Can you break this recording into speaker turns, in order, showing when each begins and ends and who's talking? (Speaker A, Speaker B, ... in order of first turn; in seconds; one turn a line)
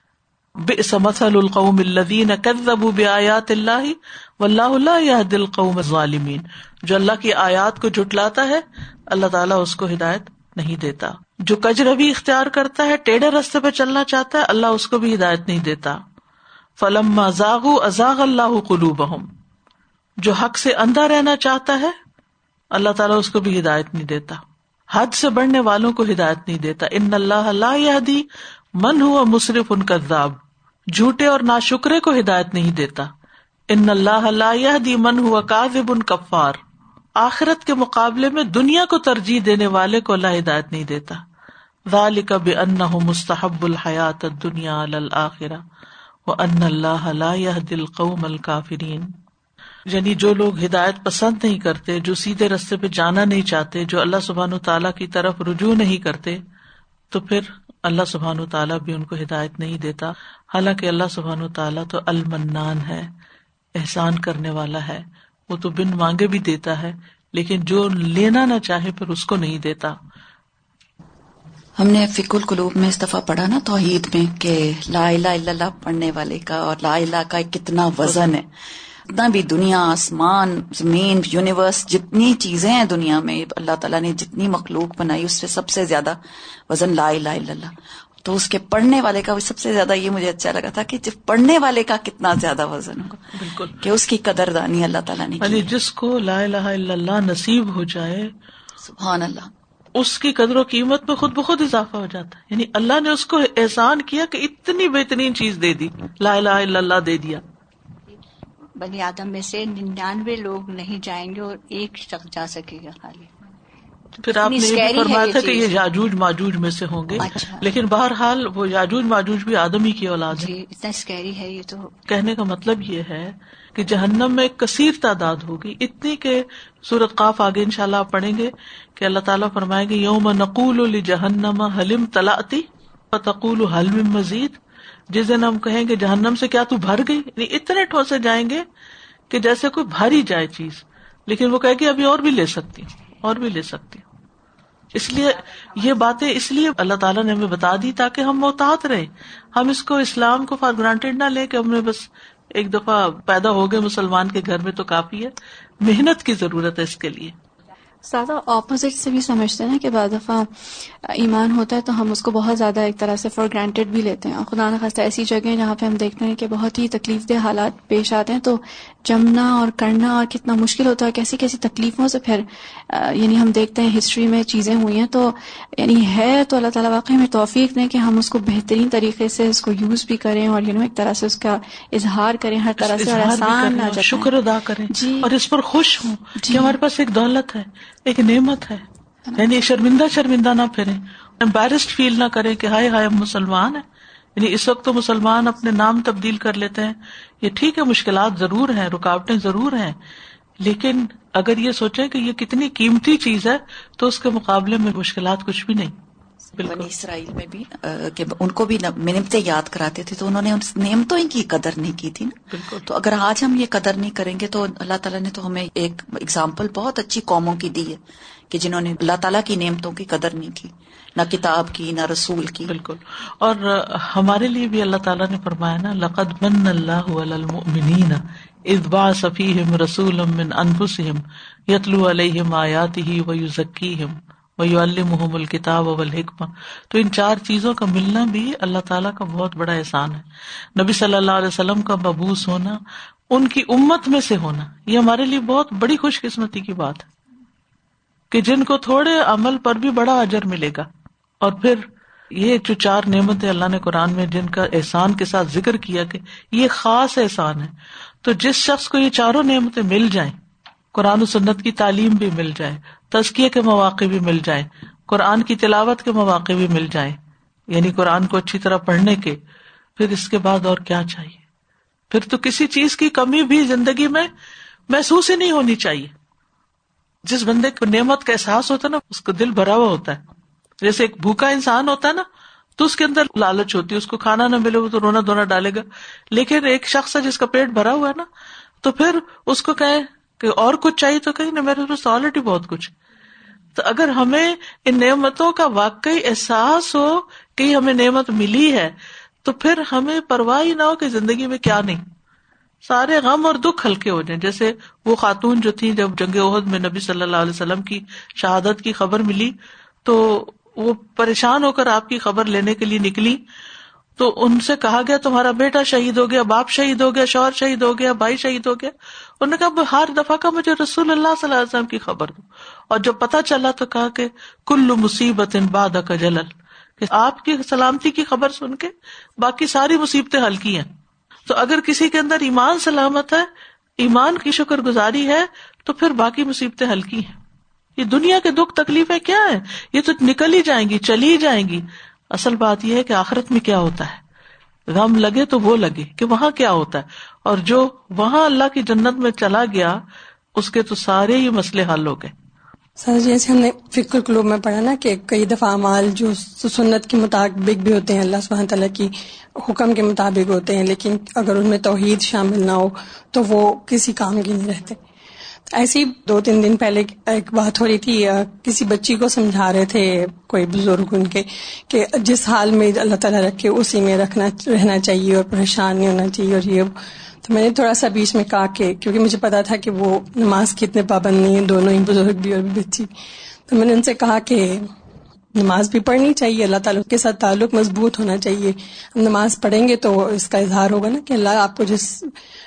Speaker A: 0.6-16.0
Speaker A: 16.8-19.3
Speaker A: 20.2-21.9
Speaker A: 22.7-24.4
Speaker A: 24.9-28.2
Speaker A: 28.8-30.4
Speaker A: 30.9-33.1
Speaker A: 33.7-36.6
Speaker A: 37.2-41.2
Speaker A: 41.9-45.6
Speaker A: 46.2-49.1
Speaker A: 49.9-56.4
Speaker A: 57.1-63.1
Speaker A: 63.8-70.0
Speaker B: 71.8-78.5
Speaker B: 79.1-95.7
Speaker A: 93.3-93.8
Speaker A: 95.4-98.3
Speaker B: 98.8-99.5
Speaker A: 100.0-107.4
Speaker C: 108.8-113.3
Speaker A: 114.2-120.5
Speaker C: 114.3-115.7
Speaker C: 117.2-117.7
Speaker C: 120.3-121.9
Speaker A: 122.1-134.6
Speaker A: 135.1-138.6
Speaker A: 139.3-144.1
Speaker A: 144.9-157.3
Speaker D: 158.0-184.3
Speaker A: 182.8-188.8
Speaker D: 184.9-185.3
Speaker D: 186.3-186.8
Speaker A: 189.3-193.8
Speaker A: 194.4-200.0
Speaker A: 200.6-205.9
Speaker A: 206.6-206.9
Speaker B: 206.6-222.7
Speaker A: 212.5-212.9
Speaker A: 222.7-240.2
Speaker A: 240.8-247.1
Speaker A: 248.3-250.9
Speaker A: 251.4-260.4
Speaker A: 260.9-267.2
Speaker A: 267.7-269.4
Speaker A: 270.0-271.4
Speaker A: 272.1-274.3
Speaker A: 274.9-276.1
Speaker A: 277.2-280.2
Speaker A: 280.8-282.2
Speaker A: 282.8-288.3
Speaker A: 288.8-292.9
Speaker A: 293.8-302.0
Speaker A: 302.8-313.4
Speaker A: 314.2-330.9
Speaker A: 331.5-337.4
Speaker A: 338.0-344.2
Speaker A: 344.9-350.0
Speaker A: 350.6-352.3
Speaker E: 353.0-365.0
Speaker E: 365.7-383.1
Speaker E: 383.7-384.9
Speaker E: 385.6-392.3